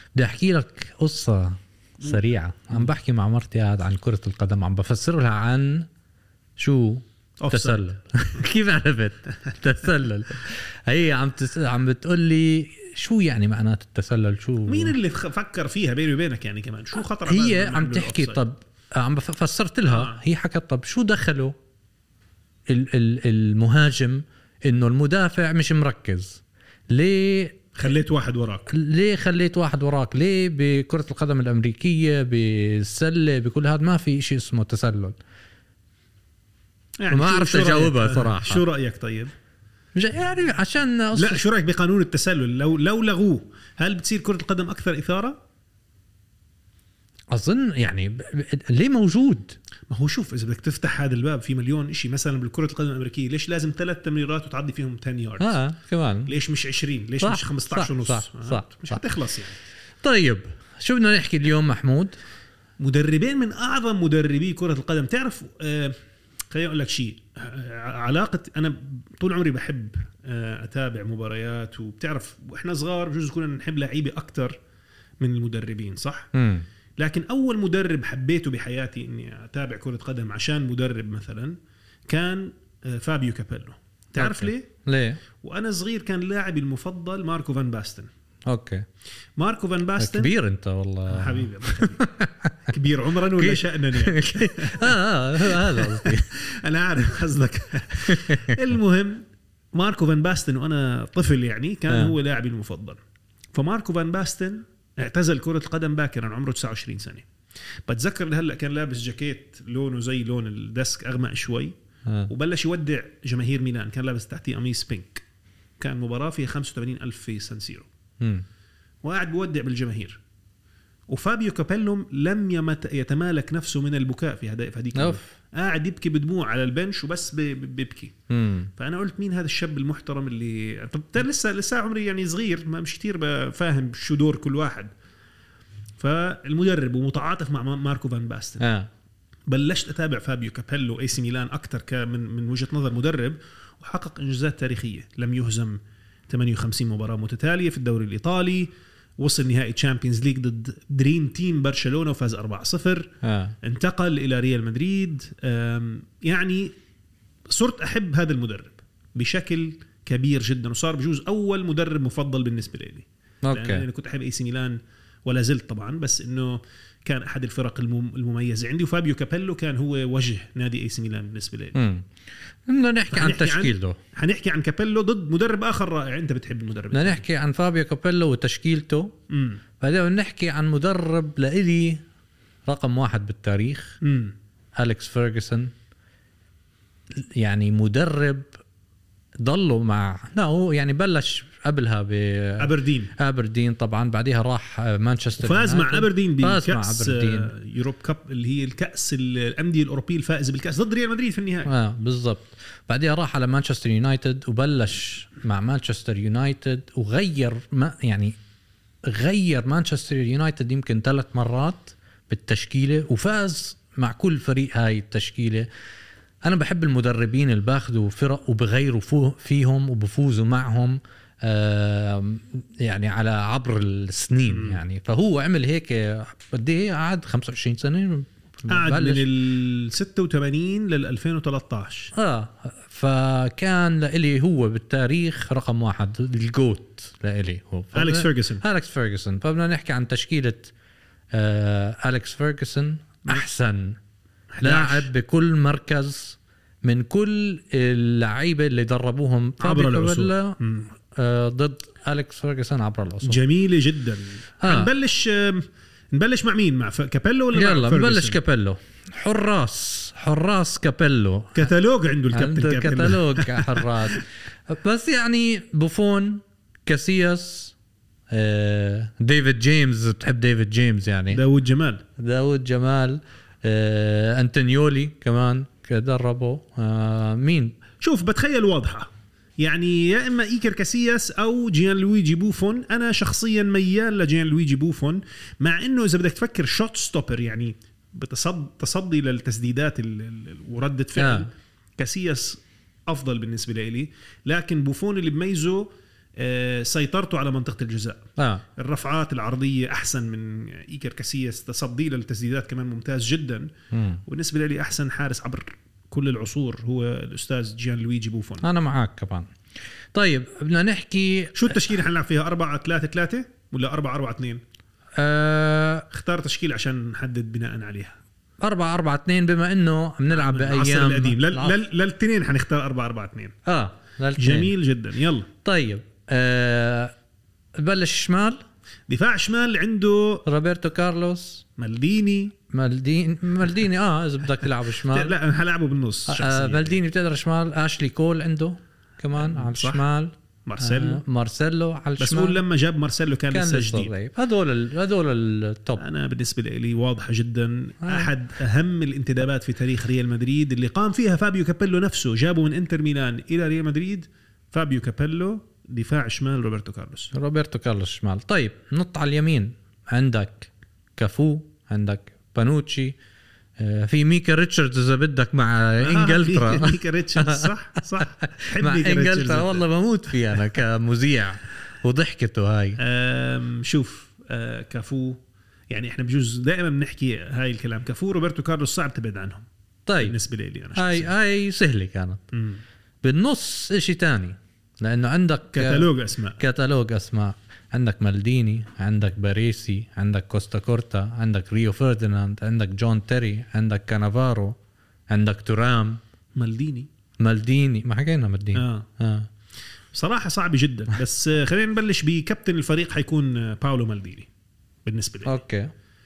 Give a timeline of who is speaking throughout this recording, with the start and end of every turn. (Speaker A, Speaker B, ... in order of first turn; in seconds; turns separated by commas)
Speaker A: 0.1-5.9, Speaker A: 6.6-14.9, Speaker B: 7.4-7.8, Speaker B: 14.7-18.4, Speaker A: 17.3-21.5, Speaker B: 19.9-20.2, Speaker A: 22.7-27.7, Speaker B: 27.7-28.7, Speaker A: 28.7-35.1, Speaker B: 37.0-39.3, Speaker A: 37.1-38.6, Speaker A: 40.0-41.4, Speaker B: 41.1-45.4, Speaker A: 47.3-49.6, Speaker B: 49.9-55.6, Speaker A: 55.4-56.3, Speaker B: 56.2-59.6, Speaker A: 57.2-59.0, Speaker A: 60.0-62.1, Speaker B: 62.8-66.0, Speaker B: 66.5-74.5, Speaker B: 75.2-76.3, Speaker A: 76.3-76.7, Speaker B: 77.0-81.5, Speaker B: 82.1-84.7, Speaker A: 84.2-85.2, Speaker B: 85.4-88.1, Speaker A: 88.5-88.8, Speaker B: 89.4-90.3, Speaker A: 90.0-92.5, Speaker B: 91.1-92.0, Speaker B: 92.7-94.9, Speaker A: 93.4-96.3, Speaker B: 95.4-103.0, Speaker A: 98.0-98.6, Speaker A: 101.9-102.1, Speaker B: 103.5-107.3, Speaker B: 107.9-111.7, Speaker B: 112.3-115.2, Speaker B: 115.8-117.9, Speaker A: 118.2-118.4, Speaker B: 119.0-120.2, Speaker B: 121.1-128.1, Speaker A: 124.9-125.3, Speaker A: 128.3-128.7, Speaker B: 128.8-134.9, Speaker B: 136.0-138.7, Speaker A: 138.6-138.9, Speaker B: 139.5-145.8, Speaker B: 146.3-153.1, Speaker A: 153.2-153.5, Speaker B: 153.6-156.7, Speaker B: 157.5-171.8, Speaker A: 163.4-163.8, Speaker A: 171.7-172.1, Speaker A: 172.7-174.0, Speaker B: 173.1-177.2, Speaker A: 176.9-179.1, Speaker B: 179.3-179.6, Speaker A: 179.8-182.0, Speaker A: 182.7-184.0, Speaker B: 184.0-184.3, Speaker A: 184.8-185.7, Speaker A: 187.2-188.5, Speaker A: 189.4-197.5, Speaker B: 192.6-193.1, Speaker B: 195.4-201.7, Speaker A: 201.7-208.3, Speaker A: 209.1-215.7, Speaker A: 216.4-229.3, Speaker B: 224.5-224.8, Speaker B: 228.7-232.1, Speaker A: 232.1-240.7, Speaker B: 237.9-238.6, Speaker A: 241.3-244.0, Speaker B: 244.5-245.1, Speaker A: 244.6-250.6, Speaker B: 249.6-250.9, Speaker A: 251.1-253.4, Speaker B: 253.2-258.4, Speaker A: 254.6-254.9, Speaker A: 257.5-261.7, Speaker B: 261.5-264.2, Speaker A: 262.3-267.7, Speaker A: 268.3-271.4, Speaker B: 271.3-272.0, Speaker A: 272.2-277.8, Speaker B: 278.0-279.1, Speaker B: 279.6-298.2, Speaker A: 291.1-291.5, Speaker A: 298.4-298.6, Speaker B: 298.8-303.7, Speaker A: 303.9-304.2, Speaker B: 304.2-308.6, Speaker A: 308.6-309.5, Speaker A: 310.1-311.8, Speaker B: 311.5-314.6, Speaker A: 315.2-316.0, Speaker B: 316.1-318.1, Speaker A: 318.6-321.8, Speaker B: 320.3-323.5, Speaker A: 323.6-324.7, Speaker B: 324.4-325.5, Speaker A: 325.6-327.1, Speaker A: 327.8-328.6, Speaker B: 329.1-330.4, Speaker A: 330.4-331.6, Speaker B: 331.8-332.5, Speaker A: 332.7-335.3, Speaker B: 335.0-337.0, Speaker A: 336.3-342.6, Speaker B: 339.4-340.0, Speaker B: 340.6-341.2, Speaker B: 342.2-344.1, Speaker A: 343.5-346.0, Speaker B: 346.0-357.3, Speaker A: 348.0-348.3, Speaker A: 357.3-363.1, Speaker A: 363.8-373.0, Speaker B: 366.0-369.9, Speaker B: 373.0-379.6, Speaker A: 380.1-380.3, Speaker B: 380.2-381.3, Speaker A: 380.9-382.4, Speaker B: 382.5-382.8, Speaker A: 383.2-394.7, Speaker B: 385.7-386.6, Speaker A: 395.3-396.2, Speaker B: 396.6-397.1, Speaker A: 397.4-399.5, Speaker B: 398.7-399.1, Speaker B: 400.1-404.5, Speaker B: 405.0-405.5, Speaker A: 405.4-405.9